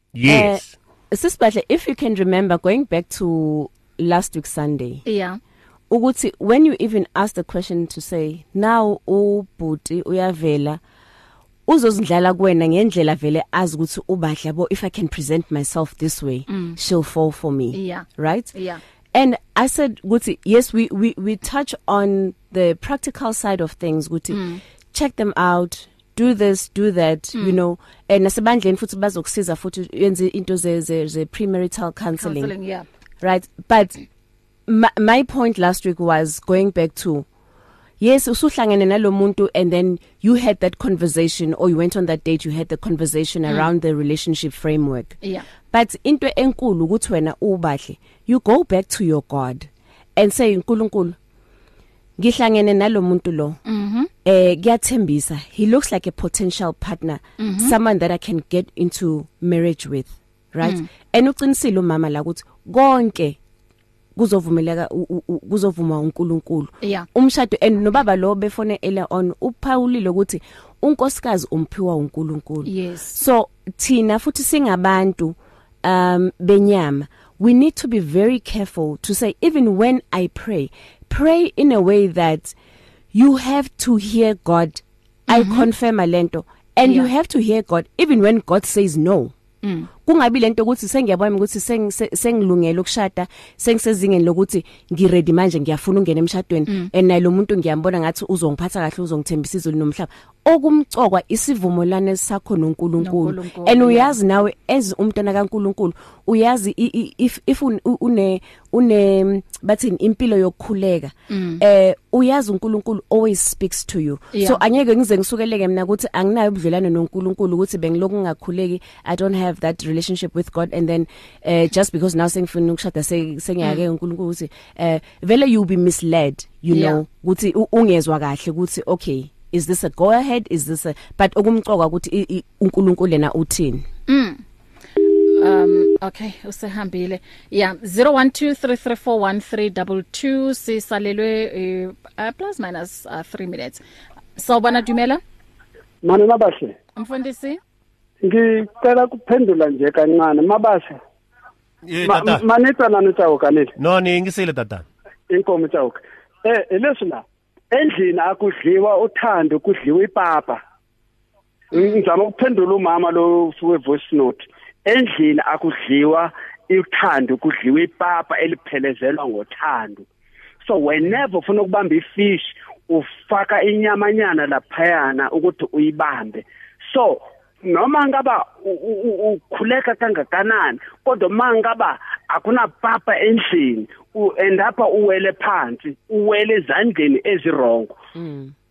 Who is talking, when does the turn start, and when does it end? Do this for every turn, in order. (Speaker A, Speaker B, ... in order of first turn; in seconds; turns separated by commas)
Speaker A: 0.1-0.7, Speaker B: 0.2-5.0, Speaker C: 5.0-5.4, Speaker B: 5.9-10.8, Speaker B: 11.7-18.5, Speaker C: 16.5-16.8, Speaker C: 17.7-18.8, Speaker B: 19.1-32.5, Speaker C: 24.3-24.6, Speaker C: 32.2-32.9, Speaker B: 33.2-34.0, Speaker B: 34.7-37.3, Speaker B: 38.0-45.2, Speaker B: 45.7-51.2, Speaker B: 52.2-53.6, Speaker C: 53.6-54.1, Speaker B: 54.2-63.4, Speaker C: 57.4-57.8, Speaker C: 60.6-60.9, Speaker B: 64.2-82.5, Speaker C: 72.7-73.2, Speaker B: 83.1-89.3, Speaker C: 85.3-85.7, Speaker C: 86.8-87.1, Speaker C: 89.6-89.9, Speaker B: 90.1-133.9, Speaker C: 103.0-104.2, Speaker C: 111.3-111.6, Speaker C: 114.3-114.6, Speaker C: 126.7-127.0, Speaker C: 134.1-134.4, Speaker C: 135.0-143.8, Speaker C: 144.4-145.2, Speaker D: 146.0-146.8, Speaker C: 147.0-147.6, Speaker D: 148.2-151.0, Speaker A: 151.9-152.4, Speaker D: 152.0-153.7, Speaker A: 153.8-154.9, Speaker D: 155.3-160.6, Speaker D: 161.7-170.1, Speaker C: 161.7-162.0, Speaker D: 170.6-187.9, Speaker B: 188.2-188.5